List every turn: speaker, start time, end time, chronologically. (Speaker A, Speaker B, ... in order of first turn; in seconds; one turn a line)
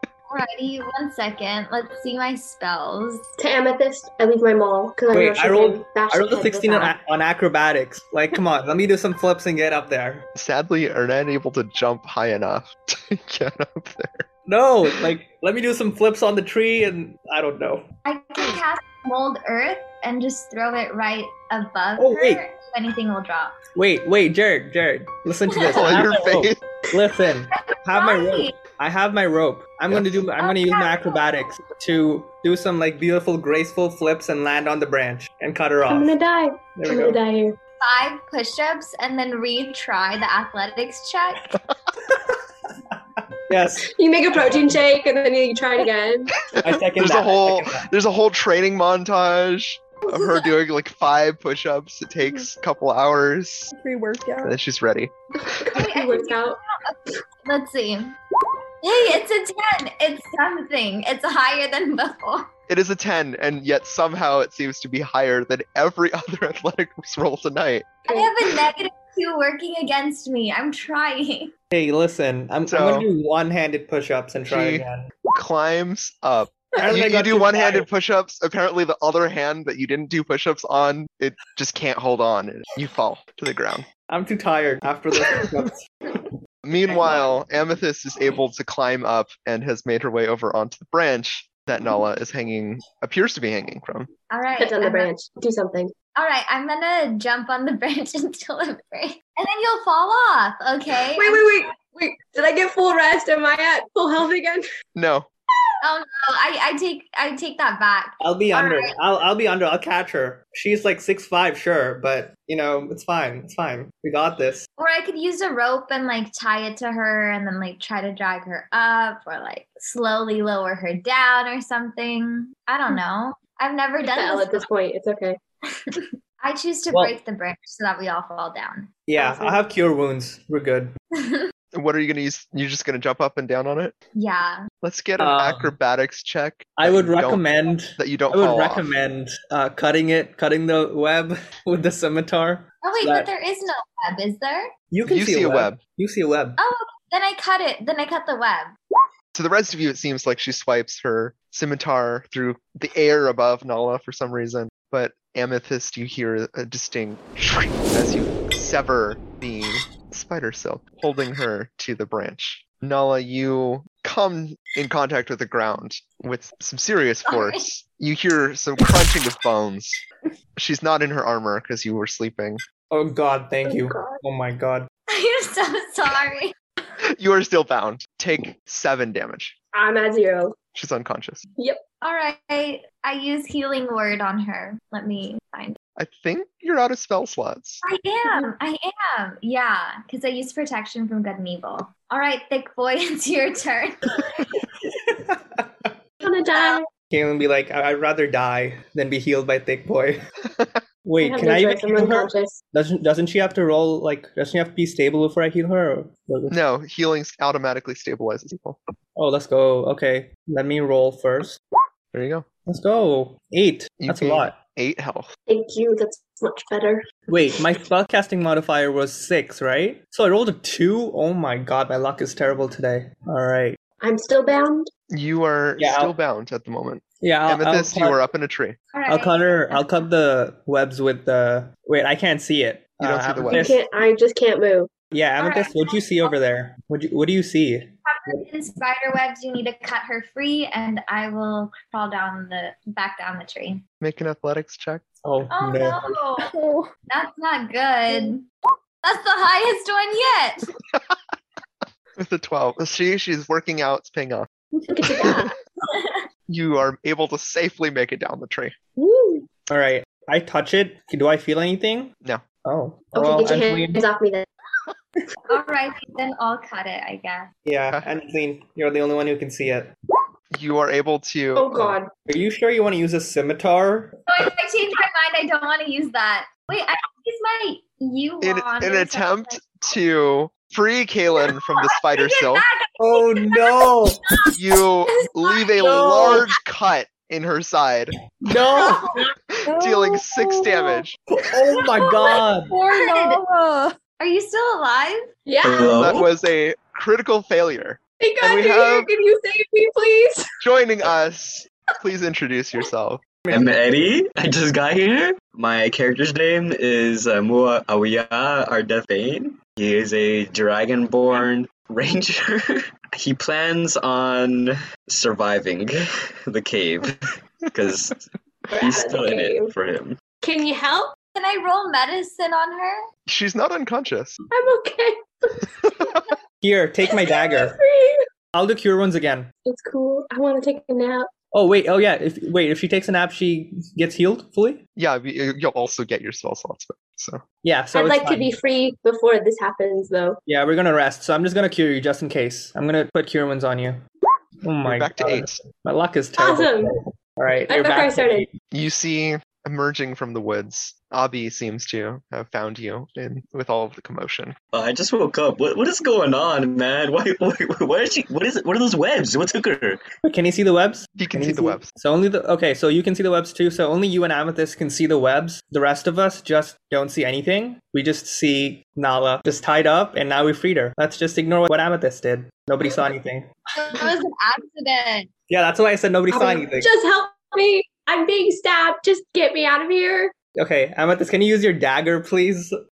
Speaker A: 0.3-3.2
Speaker B: 3.4-6.9
Speaker C: 5.1-10.2
Speaker D: 10.3-14.2
Speaker C: 14.5-17.9
Speaker A: 18.0-23.6
Speaker C: 22.0-22.4
Speaker C: 23.7-36.1
Speaker D: 25.7-26.6
Speaker A: 27.6-28.6
Speaker D: 29.9-30.2
Speaker A: 30.4-31.2
Speaker B: 35.9-37.6
Speaker C: 36.8-37.2
Speaker A: 37.8-41.5
Speaker C: 42.1-42.4
Speaker C: 42.9-44.8
Speaker B: 44.0-46.3
Speaker C: 46.5-47.9
Speaker D: 46.6-53.7
Speaker E: 52.2-52.5
Speaker E: 53.7-54.6
Speaker D: 54.4-55.1
Speaker B: 55.6-56.6
Speaker A: 55.7-58.1
Speaker A: 58.8-62.5
Speaker D: 62.7-67.9
Speaker B: 68.1-68.3
Speaker A: 68.1-71.5
Speaker C: 71.7-75.1
Speaker D: 72.7-73.1
Speaker D: 74.5-83.9
Speaker C: 76.8-77.9
Speaker C: 84.1-85.8
Speaker D: 86.6-94.1
Speaker C: 86.9-87.3
Speaker A: 94.3-95.1
Speaker B: 94.6-95.9
Speaker A: 96.1-101.6
Speaker B: 101.1-104.6
Speaker D: 104.9-105.3
Speaker A: 105.8-108.9
Speaker C: 108.2-114.6
Speaker A: 114.8-124.7
Speaker B: 124.0-125.4
Speaker A: 125.7-129.6
Speaker C: 129.1-130.9
Speaker A: 131.2-131.5
Speaker D: 131.7-133.9
Speaker A: 134.1-134.6
Speaker D: 134.8-138.8
Speaker C: 135.2-135.7
Speaker C: 136.8-143.3
Speaker A: 142.8-144.7
Speaker C: 144.9-146.6
Speaker D: 145.0-145.8
Speaker A: 146.6-148.7
Speaker D: 149.3-170.0
Speaker A: 167.2-167.6
Speaker D: 170.6-172.6
Speaker C: 172.9-174.9
Speaker B: 173.7-174.2
Speaker A: 175.1-176.5
Speaker D: 177.1-179.5
Speaker B: 179.7-180.6
Speaker D: 180.7-181.4
Speaker A: 182.0-185.8
Speaker D: 185.9-187.8
Speaker A: 187.8-194.2
Speaker C: 194.8-195.9
Speaker B: 196.2-196.9
Speaker C: 197.1-200.2
Speaker D: 200.5-200.8
Speaker C: 201.0-206.5
Speaker B: 201.2-202.6
Speaker D: 206.5-208.8
Speaker C: 209.2-211.6
Speaker D: 212.1-212.4
Speaker C: 212.7-214.6
Speaker D: 214.0-215.3
Speaker B: 215.5-217.1
Speaker C: 217.3-223.8
Speaker B: 224.0-224.9
Speaker D: 225.1-228.8
Speaker C: 225.8-226.1
Speaker C: 227.2-228.2
Speaker A: 228.9-230.1
Speaker C: 229.1-233.8
Speaker D: 233.0-233.7
Speaker B: 233.5-234.9
Speaker C: 235.1-238.4
Speaker A: 235.4-236.3
Speaker A: 238.1-243.8
Speaker D: 244.0-245.1
Speaker C: 245.2-246.0
Speaker A: 245.5-246.5
Speaker E: 246.5-246.9
Speaker A: 247.1-248.5
Speaker A: 249.0-250.7
Speaker D: 250.9-251.2
Speaker D: 252.2-254.5
Speaker B: 254.9-255.5
Speaker D: 255.1-255.4
Speaker A: 255.2-256.2
Speaker D: 256.5-258.7
Speaker B: 259.0-259.4
Speaker C: 259.7-262.1
Speaker C: 262.6-264.0
Speaker B: 263.1-264.5
Speaker A: 265.5-267.5
Speaker C: 267.6-269.9
Speaker D: 270.5-271.9
Speaker B: 271.5-272.1
Speaker C: 272.3-274.1
Speaker A: 274.3-279.8
Speaker D: 278.4-282.6
Speaker A: 282.2-282.9
Speaker C: 283.0-284.2
Speaker D: 284.5-288.1
Speaker A: 285.6-286.4
Speaker C: 288.4-289.1
Speaker E: 289.7-291.1
Speaker D: 289.7-291.1
Speaker C: 291.3-292.7
Speaker A: 292.7-293.4
Speaker E: 292.7-293.9
Speaker A: 294.2-295.3
Speaker B: 295.4-296.3
Speaker F: 295.6-296.2
Speaker D: 295.8-299.1
Speaker B: 298.2-300.5
Speaker D: 300.6-303.2
Speaker C: 303.4-303.8
Speaker F: 303.5-315.9
Speaker F: 316.5-318.2
Speaker B: 318.7-319.7
Speaker F: 318.8-320.2
Speaker B: 320.4-321.1
Speaker A: 321.3-323.0
Speaker D: 323.3-324.4
Speaker B: 324.5-325.7
Speaker D: 325.9-326.2
Speaker C: 326.6-327.8
Speaker B: 327.1-328.2
Speaker C: 328.5-329.5
Speaker B: 329.6-331.3
Speaker C: 331.5-334.8
Speaker D: 334.9-337.4
Speaker C: 337.6-338.5
Speaker B: 337.9-340.4
Speaker C: 340.5-344.0
Speaker C: 344.6-348.5
Speaker D: 344.8-345.6
Speaker B: 346.4-347.0
Speaker B: 347.7-348.5
Speaker D: 348.7-354.5
Speaker F: 354.7-360.0
Speaker C: 360.2-373.9
Speaker D: 361.2-361.9
Speaker A: 373.7-375.3
Speaker C: 375.5-376.9
Speaker B: 376.3-380.3
Speaker C: 380.5-382.7